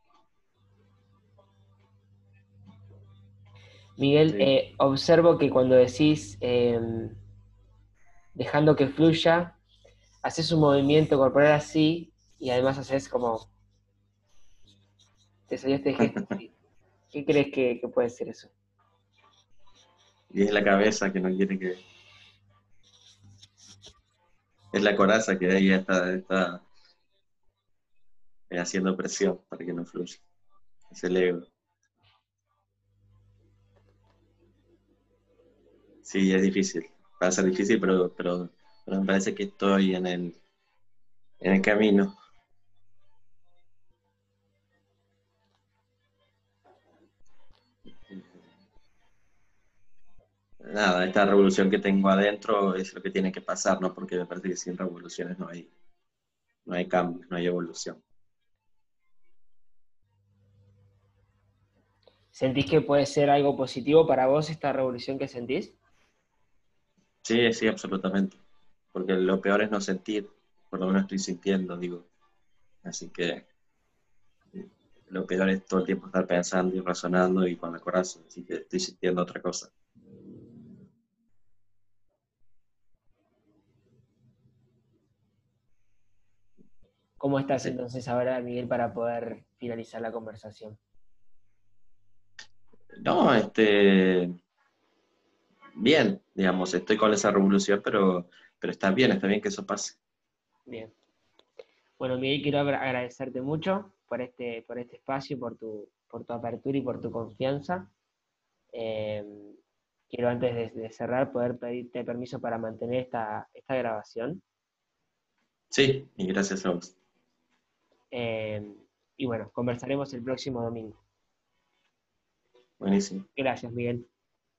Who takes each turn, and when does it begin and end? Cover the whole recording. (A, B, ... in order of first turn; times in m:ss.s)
0:04.0-0:07.2 A
0:08.4-0:09.6 A
0:10.2-0:13.5 A
0:15.5-0:16.5 A
0:17.1-0:18.5 A
0:20.3-0:21.8 B
0:24.7-0:26.6 B
0:28.5-0:30.2 B
0:30.9-0:31.5 B
0:36.0-0:40.4 B
0:41.4-0:42.2 B
0:48.1-0:48.3 B
0:50.6-0:55.7 B
0:56.7-0:58.0 B
1:02.3-1:05.8 A
1:07.2-1:08.4 B
1:08.9-1:12.1 B
1:12.8-1:13.4 B
1:15.1-1:19.7 B
1:27.2-1:30.8 A
1:33.0-1:34.3 B
1:35.8-1:40.0 B
1:40.7-1:40.9 A
1:42.0-1:47.9 A
1:48.7-1:49.6 A
1:50.1-1:54.4 A
1:55.7-1:57.0 B
1:58.1-2:01.0 A
2:02.8-2:03.3 B
2:03.4-2:04.1 A